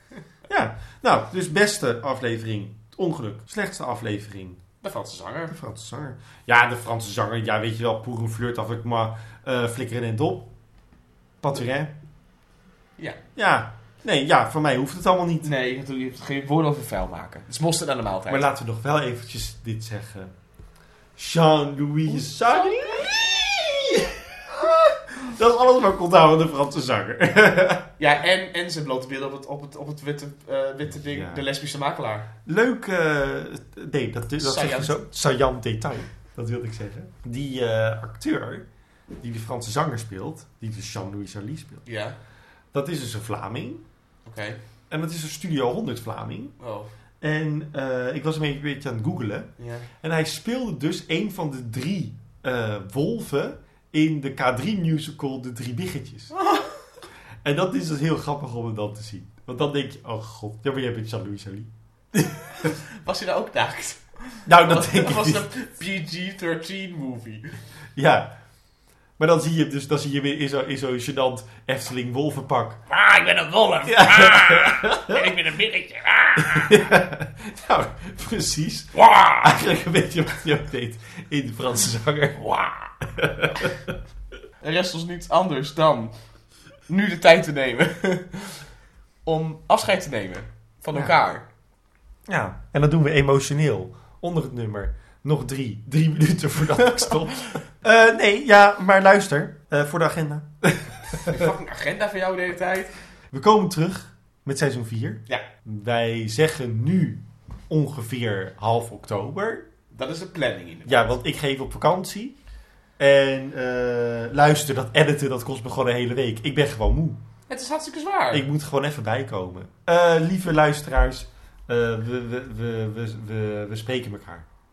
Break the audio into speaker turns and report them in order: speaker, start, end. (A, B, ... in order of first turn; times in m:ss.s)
0:00.5-0:04.6 A
0:04.8-0:05.5 B
0:05.5-0:10.5 A
0:11.4-0:11.9 A
0:13.4-0:15.5 A
0:15.4-0:18.5 B
0:18.3-0:20.3 A
0:21.2-0:27.9 A
0:22.1-0:23.1 B
0:28.0-0:32.3 B
0:30.9-0:31.4 A
0:32.4-0:38.6 A
0:34.4-0:35.0 B
0:39.2-0:41.9 A
0:41.9-0:42.2 B
0:42.7-0:43.8 A
0:44.2-0:44.6 B
0:44.9-0:46.6 A
0:46.6-0:46.9 B
0:47.2-0:49.5 A
0:49.6-0:49.9 B
0:50.0-0:56.3 A
0:56.3-0:56.8 B
0:57.4-1:01.7 A
1:02.2-1:02.7 A
1:02.6-1:07.6 B
1:04.5-1:05.4 A
1:08.0-1:08.3 A
1:09.2-1:12.8 A
1:12.9-1:16.8 B
1:13.9-1:15.2 A
1:16.4-1:24.0 A
1:18.9-1:19.6 B
1:24.6-1:26.1 B
1:26.9-1:28.6 B
1:29.2-1:31.4 B
1:32.3-1:41.5 A
1:36.9-1:37.2 B
1:41.1-1:42.9 B
1:43.3-1:49.7 A
1:49.9-1:51.1 B
1:50.9-1:52.4 A
1:53.0-1:57.2 A
1:57.5-1:58.5 B
1:58.3-2:04.5 A